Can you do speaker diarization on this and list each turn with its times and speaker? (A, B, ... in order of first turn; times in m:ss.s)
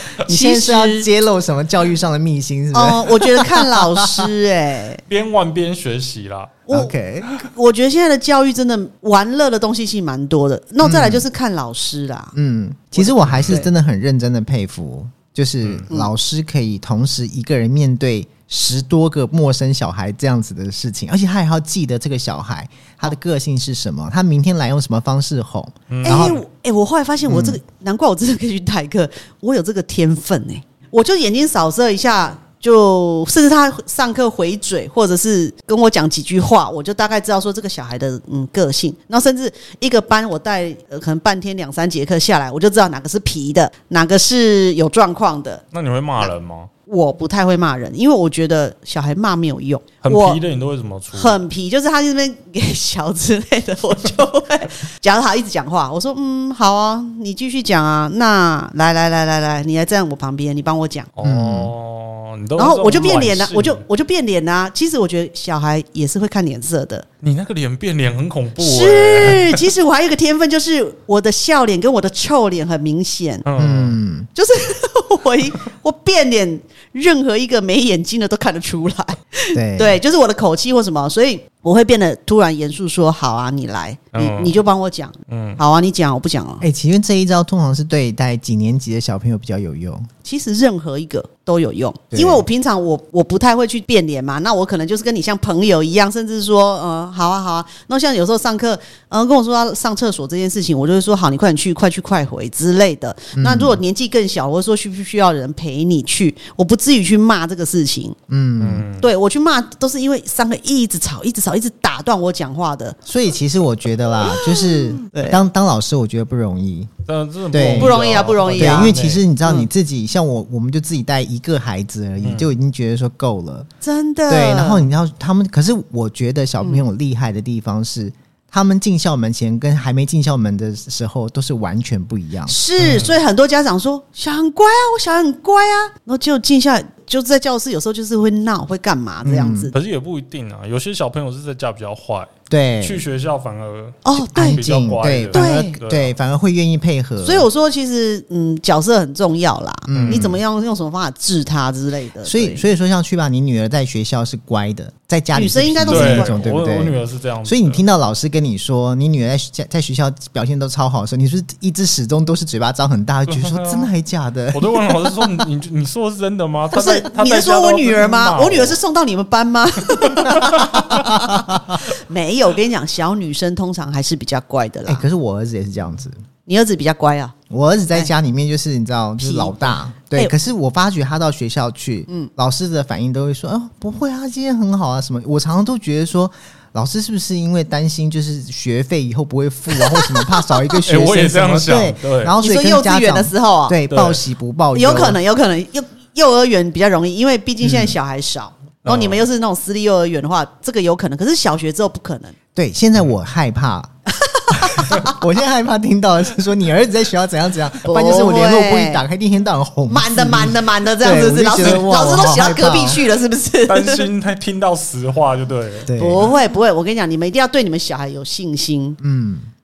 0:00.2-0:04.3 A
0:00.2-0:01.1 B
0:02.7-0:05.0 B
0:05.1-0:06.6 C
0:06.7-0:12.3 B
0:06.7-0:07.3 A
0:10.8-0:11.2 A
0:12.3-0:26.4 A
0:12.9-0:13.7 B
0:13.2-0:13.6 C
0:25.9-0:26.4 C
0:26.0-0:45.6 B
0:27.3-0:27.6 A
0:45.7-0:46.7 C
0:46.9-0:50.4 B
0:50.0-0:51.4 C
0:51.1-1:01.1 B
1:01.2-1:03.8 C
1:01.2-1:01.7 A
1:02.6-1:07.0 B
1:07.2-1:09.6 C
1:08.6-1:13.4 B
1:13.4-1:14.0 C
1:13.6-1:14.3 A
1:14.3-1:26.6 B
1:19.5-1:20.0 A
1:24.1-1:24.6 C
1:25.3-1:25.6 C
1:26.6-1:30.1 A
1:30.2-1:48.2 B
1:32.1-1:32.4 A
1:43.4-1:43.8 A
1:48.3-1:48.8 A
1:48.6-1:49.1 C
1:49.0-1:53.0 B
1:53.0-1:56.9 A
1:54.2-1:55.4 B
1:57.0-1:59.2 C
1:57.5-2:03.7 A
1:57.8-1:59.7 B
2:02.2-2:02.5 C
2:03.8-2:04.9 B
2:04.3-2:12.5 A
2:12.5-2:19.7 B
2:12.8-2:13.1 C
2:19.2-2:19.7 A
2:19.7-2:22.3 C
2:22.5-2:23.0 A
2:22.8-2:26.1 C
2:24.0-2:24.6 B
2:24.2-2:27.4 A
2:25.3-2:25.8 B
2:27.2-2:32.6 B
2:29.9-2:30.4 A
2:29.9-2:30.3 C
2:32.2-2:45.3 A
2:35.3-2:36.4 B
2:35.8-2:37.8 C
2:43.3-2:43.9 C
2:44.5-2:48.8 C
2:46.7-2:55.0 B
2:50.4-2:50.8 C
2:50.5-2:51.8 A
2:54.9-2:56.2 A
2:56.4-2:57.3 B
2:57.5-3:15.2 A
2:59.2-2:59.6 B
3:09.8-3:10.4 B
3:10.8-3:12.3 C
3:12.4-3:13.8 B
3:13.9-3:14.2 C
3:14.7-3:22.3 B
3:18.8-3:19.2 C
3:22.5-3:23.9 A
3:24.2-3:25.2 B
3:24.5-3:33.0 A
3:27.8-3:29.0 B
3:29.9-3:34.1 B
3:31.6-3:32.0 C
3:33.7-3:35.9 C
3:35.8-3:36.3 A
3:36.0-3:39.0 B
3:39.0-3:39.5 A